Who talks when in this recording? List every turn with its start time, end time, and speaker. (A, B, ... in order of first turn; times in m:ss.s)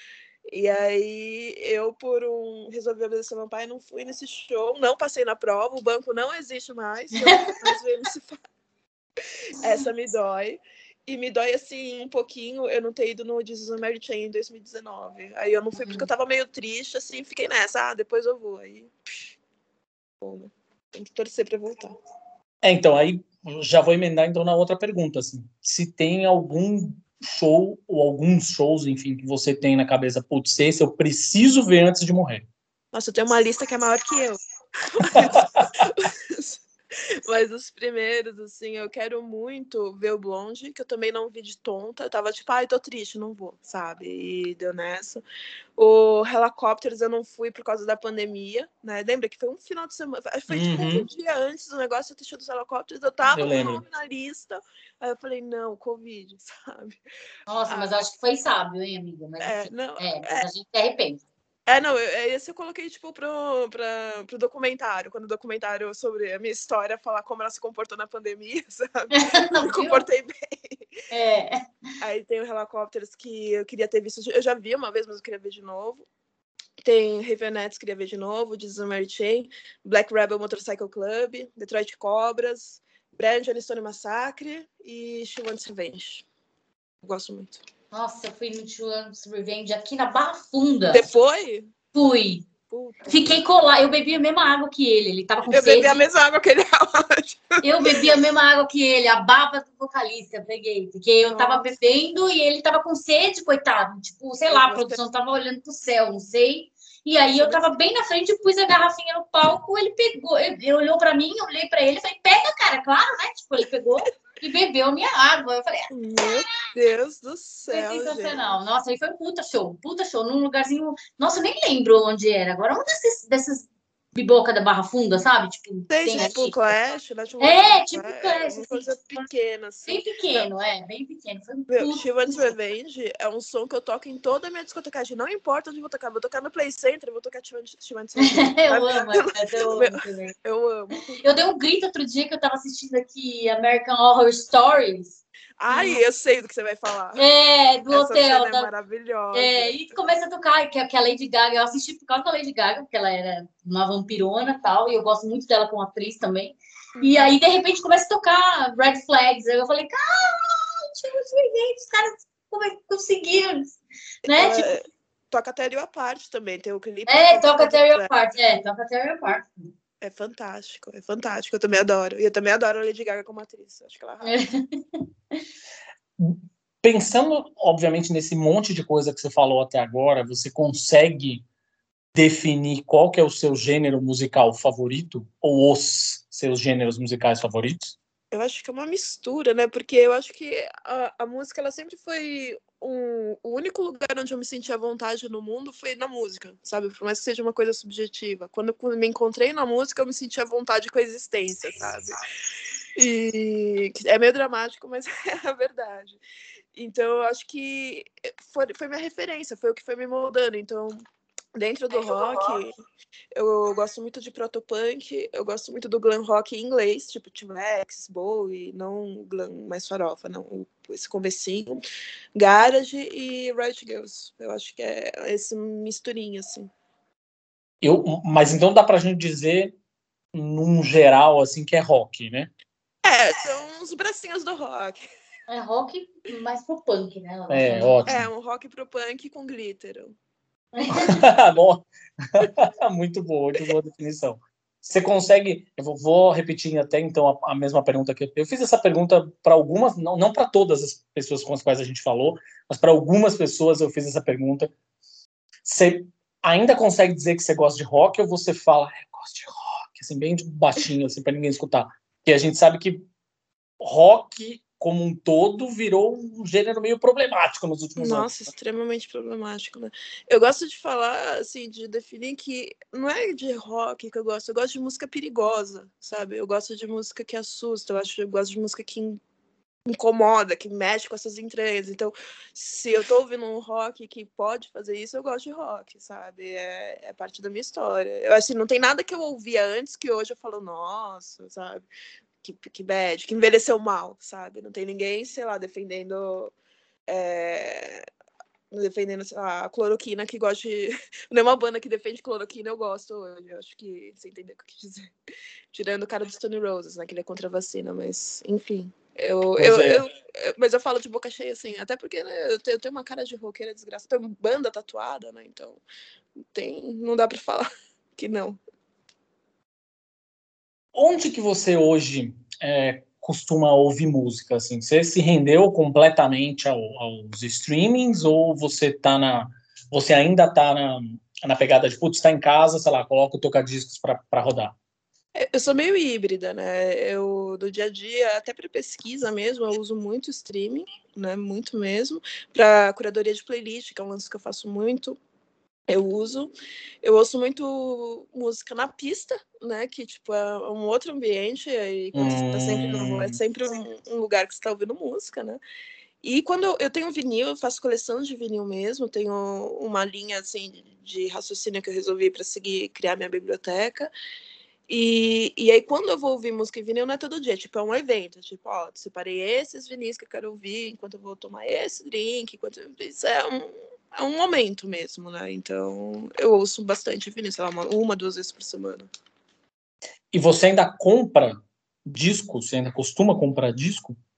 0:00.4-0:08.4 A
0:07.2-0:07.7 B
0:09.6-0:18.9 A
0:15.8-0:16.1 B
0:20.2-0:22.0 A
0:22.6-0:32.4 C
0:32.9-0:34.4 A
0:34.9-0:36.6 A
0:35.1-0:35.6 C
0:37.2-0:45.2 A
0:45.8-0:57.0 A
0:50.5-0:51.1 C
0:53.3-0:53.8 C
0:57.5-1:01.2 B
0:57.7-0:58.0 A
0:59.4-1:00.5 A
1:01.7-1:10.8 A
1:09.1-1:10.0 B
1:11.1-1:11.6 B
1:12.0-1:16.0 A
1:16.8-1:26.2 A
1:27.0-1:27.6 A
1:27.9-1:31.1 B
1:30.9-1:31.7 A
1:31.9-1:32.4 B
1:32.7-1:33.2 A
1:33.1-1:36.0 B
1:35.5-1:38.0 A
1:37.6-1:56.4 B
1:41.2-1:41.7 A
1:44.5-1:45.0 A
1:47.3-1:47.7 A
1:55.9-1:58.6 A
1:57.7-2:06.5 B
2:05.9-2:10.5 A
2:07.4-2:09.2 B
2:09.8-2:12.1 B
2:11.7-2:21.2 A
2:18.2-2:20.3 B
2:21.2-2:25.2 B
2:25.6-2:27.2 A
2:25.7-2:26.0 B
2:27.2-2:28.7 B
2:27.9-2:30.1 A
2:29.3-2:44.7 B
2:37.0-2:37.4 A
2:44.3-2:48.1 A
2:47.1-2:49.7 B
2:50.0-2:54.3 A
2:54.2-2:55.4 B
2:56.2-3:01.4 C
3:02.1-3:08.0 C
3:08.3-3:22.2 A
3:23.0-3:26.2 A
3:26.7-3:31.0 A
3:31.5-3:32.7 A
3:33.3-3:41.8 A
3:42.3-3:46.7 A
3:47.8-3:49.7 C
3:50.3-3:52.5 C
3:53.0-3:55.0 A
3:55.5-3:58.0 B
3:57.5-3:58.3 C
3:58.0-4:00.1 A
4:00.8-4:01.2 B
4:01.0-4:14.7 C
4:15.6-4:23.0 C
4:23.8-4:28.3 C
4:28.0-4:39.2 A
4:39.9-4:51.8 A
4:52.4-4:56.5 A
4:57.1-4:58.0 A
4:58.7-5:05.1 A
5:05.7-5:15.8 A
5:09.6-5:10.0 C
5:16.5-5:18.6 A
5:20.9-5:34.7 C
5:35.3-5:45.2 A
5:45.9-5:46.5 A
5:47.0-5:55.6 A
5:52.1-5:53.4 C
5:56.2-6:04.1 A
6:04.9-6:19.1 A
6:20.3-6:24.2 C